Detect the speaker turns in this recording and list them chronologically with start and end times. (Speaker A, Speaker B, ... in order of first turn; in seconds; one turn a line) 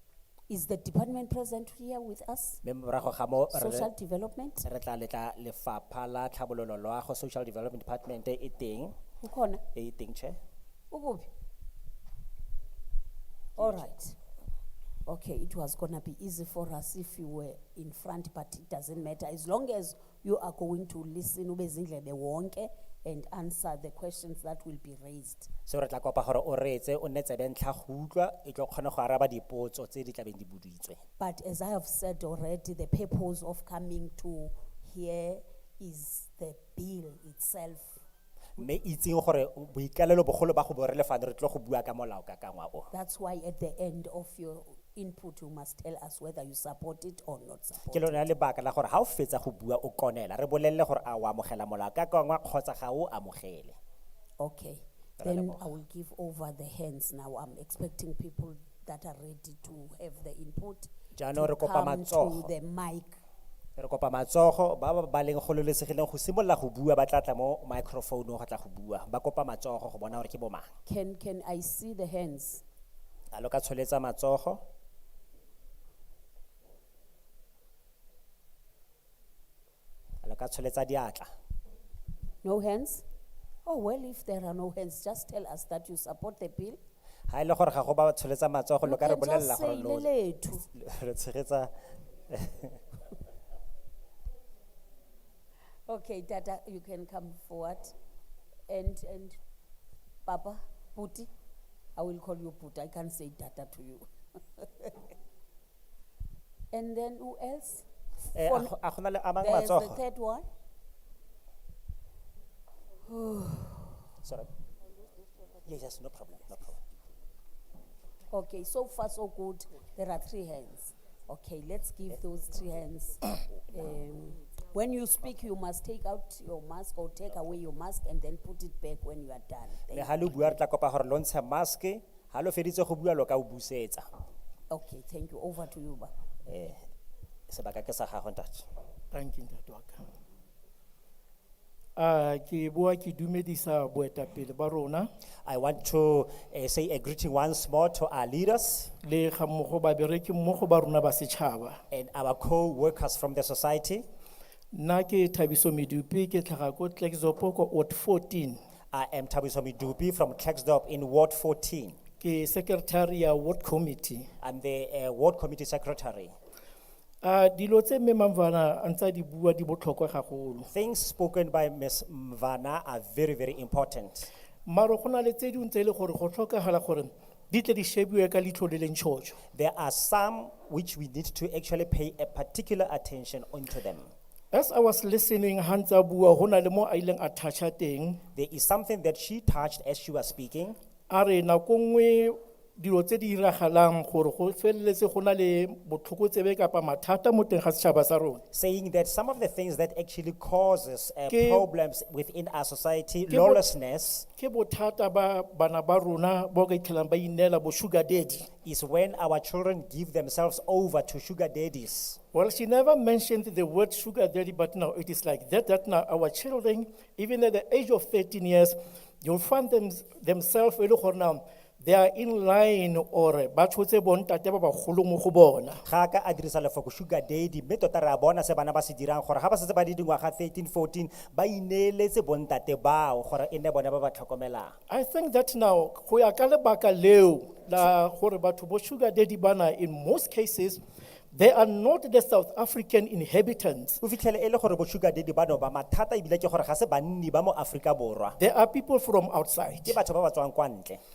Speaker A: 0.5-2.6
Speaker B: 2.6-3.9
Speaker A: 3.5-4.7
Speaker B: 4.6-9.0
Speaker A: 9.2-9.6
Speaker B: 9.7-10.4
Speaker A: 10.9-11.3
Speaker A: 13.6-14.2
Speaker B: 13.6-13.9
Speaker A: 15.1-25.5
Speaker B: 25.7-31.0
Speaker A: 31.2-38.0
Speaker B: 38.6-42.9
Speaker A: 42.9-48.2
Speaker B: 47.8-53.8
Speaker A: 54.4-63.2
Speaker B: 55.2-55.7
Speaker B: 61.2-62.5
Speaker B: 63.8-70.7
Speaker A: 70.9-72.6
Speaker B: 73.3-74.6
Speaker B: 80.2-81.3
Speaker A: 82.4-83.0
Speaker A: 83.6-86.8
Speaker B: 87.3-90.1
Speaker A: 88.8-90.7
Speaker B: 90.7-91.7
Speaker B: 92.3-92.8
Speaker A: 95.9-97.9
Speaker A: 98.7-99.4
Speaker A: 100.2-101.3
Speaker A: 102.0-105.1
Speaker A: 106.7-107.9
Speaker B: 108.3-110.0
Speaker A: 108.4-108.7
Speaker A: 109.4-110.5
Speaker A: 113.1-114.0
Speaker B: 114.2-114.5
Speaker B: 115.6-116.8
Speaker A: 118.3-130.6
Speaker B: 129.9-134.1
Speaker A: 134.7-136.1
Speaker B: 136.5-136.8
Speaker B: 137.5-138.7
Speaker C: 139.1-140.1
Speaker C: 142.0-145.1
Speaker B: 145.5-148.9
Speaker C: 149.0-151.8
Speaker B: 151.9-154.0
Speaker C: 154.7-158.6
Speaker B: 158.9-162.0
Speaker C: 162.2-164.3
Speaker B: 164.4-166.3
Speaker C: 167.2-170.7
Speaker B: 170.7-174.3
Speaker C: 174.7-179.4
Speaker B: 179.5-184.1
Speaker C: 184.5-188.2
Speaker B: 188.3-190.8
Speaker C: 191.1-198.4
Speaker B: 198.5-204.2
Speaker C: 201.3-201.7
Speaker C: 203.3-203.7
Speaker C: 204.4-208.5
Speaker B: 208.7-212.2
Speaker C: 212.3-225.8
Speaker B: 225.8-234.8
Speaker C: 234.9-240.8
Speaker C: 241.3-244.0
Speaker B: 244.0-248.3
Speaker C: 248.4-250.0
Speaker B: 249.8-251.0